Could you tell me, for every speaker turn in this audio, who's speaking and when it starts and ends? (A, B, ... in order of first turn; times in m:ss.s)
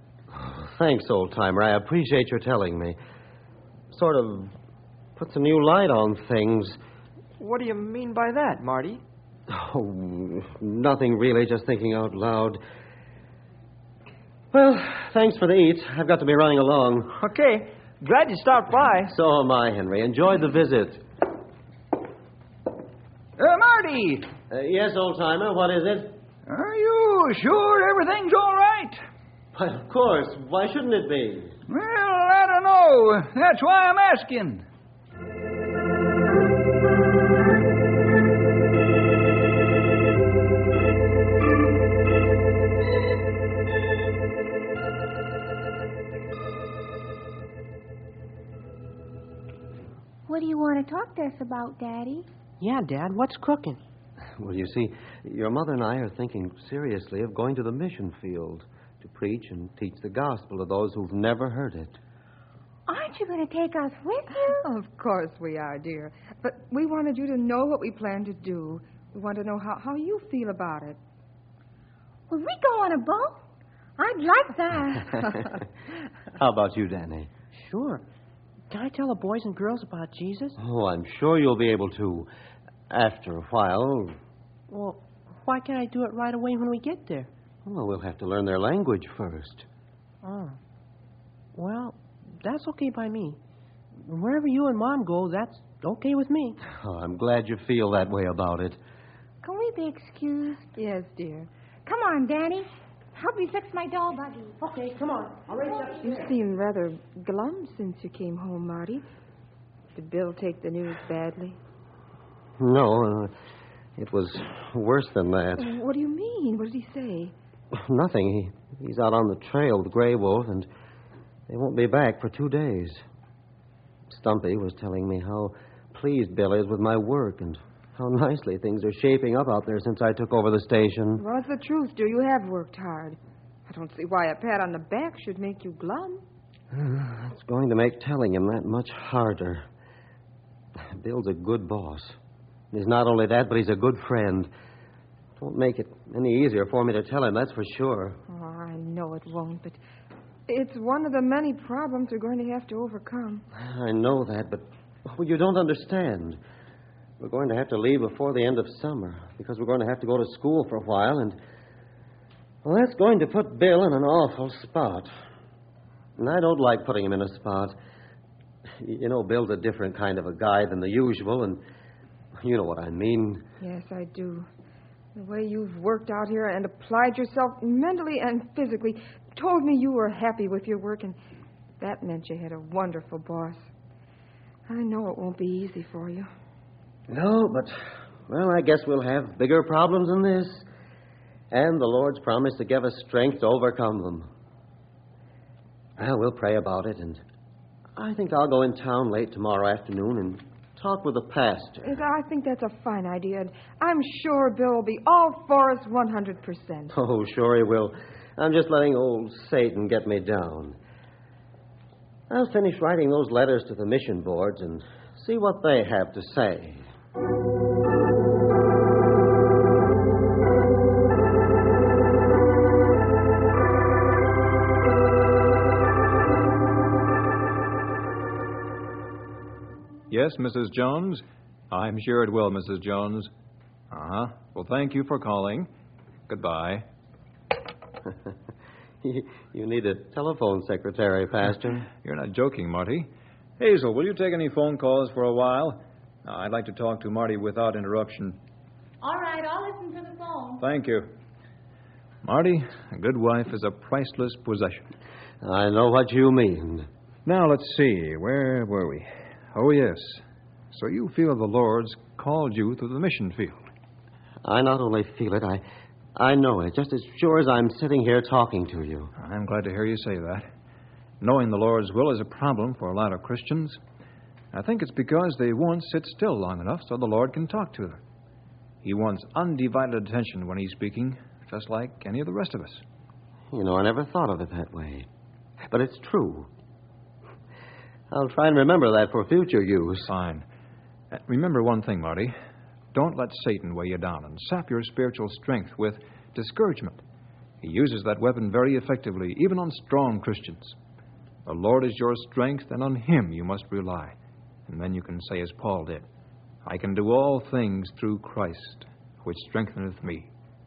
0:00.3-0:03.0 A
0:03.9-0:04.5 A
0:05.2-0:06.8 A
0:07.4-0:09.0 B
0:09.5-0:12.6 A
0:14.5-0:17.2 A
0:17.1-0:19.1 B
0:19.1-0:21.0 A
0:23.4-0:24.3 C
0:24.5-0:26.1 A
0:26.5-0:29.0 C
0:29.5-0:31.6 A
0:31.7-0:34.6 C
0:50.3-0:52.3 D
0:52.6-0:53.8 E
0:54.4-1:02.0 A
1:02.9-1:04.7 D
1:04.6-1:11.0 F
1:12.3-1:13.4 D
1:14.0-1:15.5 D
1:16.4-1:17.3 A
1:17.5-1:18.0 E
1:18.7-1:20.6 E
1:20.6-1:22.3 A
1:22.9-1:24.2 A
1:24.7-1:27.3 E
1:27.6-1:29.7 A
1:30.2-1:30.6 E
1:31.6-1:33.4 E
1:34.0-1:36.6 E
1:36.6-1:38.8 A
1:39.4-1:40.7 D
1:40.8-1:41.5 F
1:41.9-1:44.6 D
1:44.6-1:46.3 E
1:46.0-1:49.0 F
1:50.0-1:51.6 F
1:52.6-1:53.3 A
1:54.0-1:55.7 A
1:55.6-1:57.3 F
1:57.7-2:00.7 A
2:01.5-2:03.0 A
2:04.1-2:11.2 A
2:11.2-2:16.2 F
2:16.7-2:19.7 A
2:20.8-2:22.2 A
2:22.7-2:24.5 A
2:25.4-2:28.2 A
2:28.3-2:29.8 F
2:30.5-2:33.4 F
2:33.5-2:36.4 A
2:37.2-2:41.4 A
2:42.6-2:45.1 A
2:46.2-2:47.8 A
2:48.8-2:51.6 A
2:52.4-2:53.4 A
2:53.6-2:54.5 F
2:55.2-3:01.2 F
3:01.8-3:03.7 F
3:04.7-3:06.3 F
3:07.1-3:10.7 A
3:11.5-3:14.3 A
3:16.0-3:17.2 A
3:18.0-3:21.9 A
3:21.8-3:26.9 F
3:26.9-3:30.8 A
3:32.3-3:36.8 A
3:50.1-3:53.3 G
3:53.9-3:55.7 G
3:56.3-3:56.9 G
3:59.0-4:01.9 A
4:01.9-4:08.4 G
4:09.0-4:10.6 D
4:10.6-4:11.1 G
4:12.2-4:14.8 G
4:15.4-4:16.9 A
4:17.2-4:23.6 G
4:24.4-4:25.6 A
4:26.2-4:29.1 A
4:29.2-4:30.5 G
4:31.2-4:33.8 G
4:34.5-4:38.0 G
4:38.8-4:42.8 G
4:43.5-4:45.1 A
4:45.7-4:46.5 A
4:48.1-4:50.1 A
4:50.1-4:50.5 G
4:51.1-4:52.4 G
4:52.9-4:57.0 G
4:57.6-5:00.8 G
5:01.5-5:04.2 G
5:04.7-5:06.1 G
5:06.6-5:10.3 G